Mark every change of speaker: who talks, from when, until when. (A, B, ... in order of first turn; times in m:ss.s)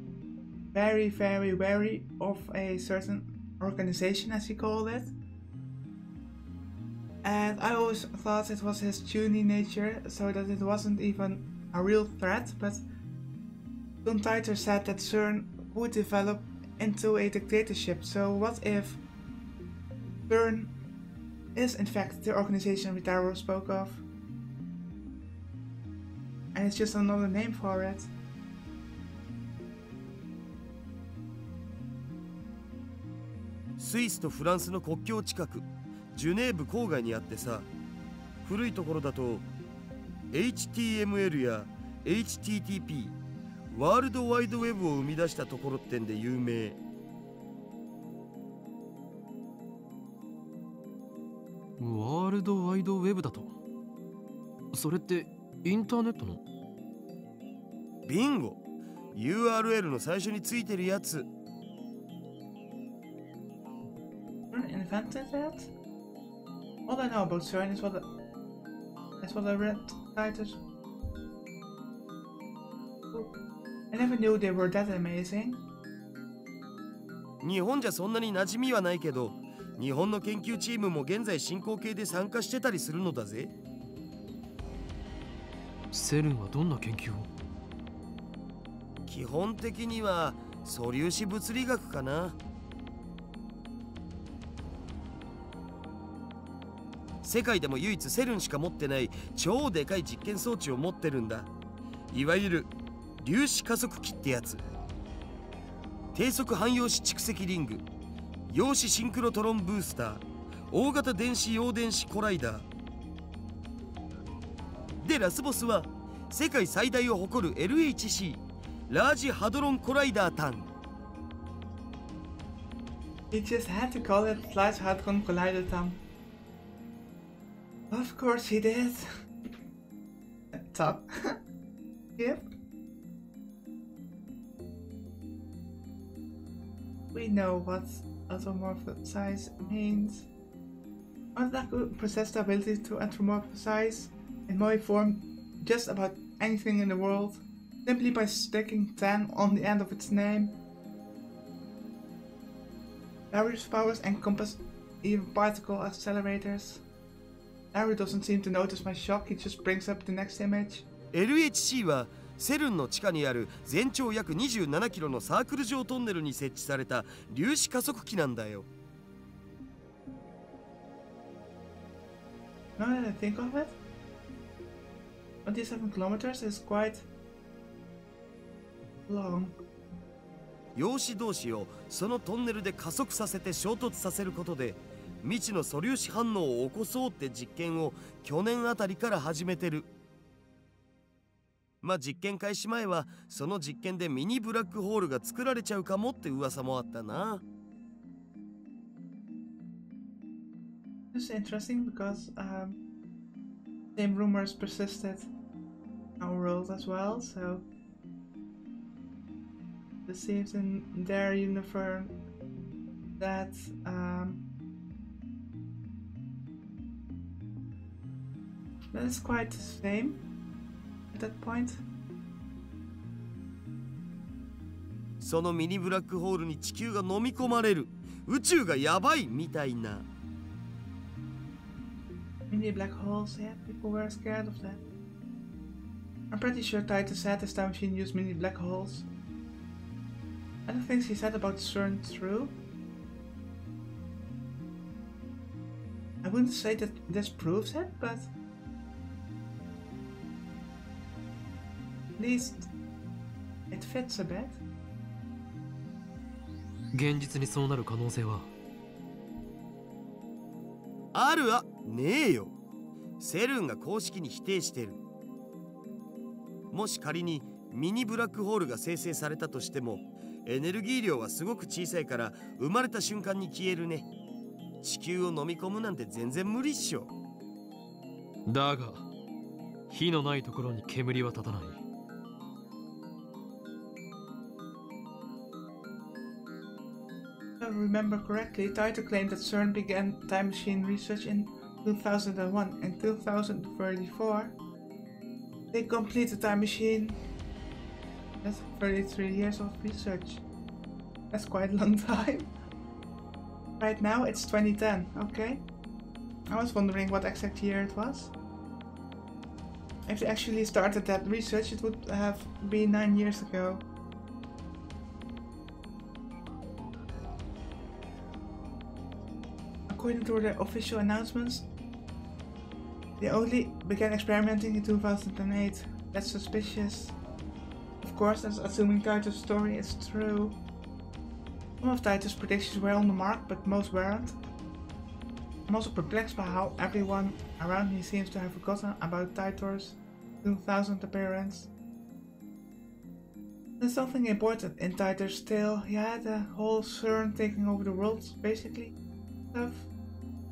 0:00.7-0:05.1 A
0:07.2-0:12.8 A
0:14.0-0:19.0 A
0:20.3-0:20.7 A
0:21.5-0:24.0 A
0:26.5-0:28.1 A
0:33.8-0:37.7 B
0:38.4-0:39.5 B
0:40.3-0:43.2 B
0:43.7-0:46.8 B
0:51.8-0:53.5 C
0:54.7-0:56.4 C
0:58.0-0:58.6 B
0:59.1-1:01.3 B
1:04.5-1:05.7 A
1:06.8-1:08.0 A
1:09.2-1:10.6 A
1:13.1-1:15.6 A
1:17.4-1:23.5 B
1:25.9-1:27.3 C
1:29.0-1:32.4 B
1:37.2-1:41.5 B
1:42.1-1:44.6 B
1:46.1-1:47.8 B
1:48.5-1:52.7 B
1:55.0-2:00.7 B
2:03.3-2:06.0 A
2:07.9-2:09.1 A
2:10.7-2:11.4 A
2:12.2-2:12.5 A
2:17.1-2:20.3 A
2:21.3-2:30.6 A
2:33.3-2:36.8 A
2:37.7-2:40.9 A
2:41.1-2:48.7 B
2:52.8-2:53.8 A
2:55.4-2:57.1 A
2:59.1-2:59.6 A
3:00.7-3:09.9 B
3:11.8-3:17.4 B
3:21.1-3:22.8 A
3:23.9-3:25.3 A
3:26.2-3:27.7 A
3:30.0-3:32.2 A
3:33.2-3:34.5 A
3:38.9-3:40.2 A
3:41.1-3:41.8 A
3:45.2-3:50.0 B
3:52.5-3:54.8 A
3:56.3-3:59.1 A
4:00.6-4:02.6 A
4:06.2-4:08.3 A
4:12.2-4:12.7 A
4:13.7-4:14.6 A
4:16.9-4:18.5 C
4:21.1-4:22.5 B
4:23.2-4:25.0 B
4:26.7-4:34.1 B
4:34.8-4:37.1 B
4:38.4-4:39.1 C
4:39.9-4:41.8 C
4:47.6-4:54.6 A
4:55.7-4:57.2 A
4:58.4-5:00.4 A
5:01.3-5:02.5 A
5:03.8-5:05.6 A
5:06.5-5:08.3 A
5:10.1-5:13.9 A
5:19.9-5:21.7 A
5:23.2-5:27.2 A
5:28.0-5:30.6 A
5:31.8-5:34.4 A
5:35.7-5:41.7 A
5:43.8-5:49.0 A
5:49.5-5:49.9 A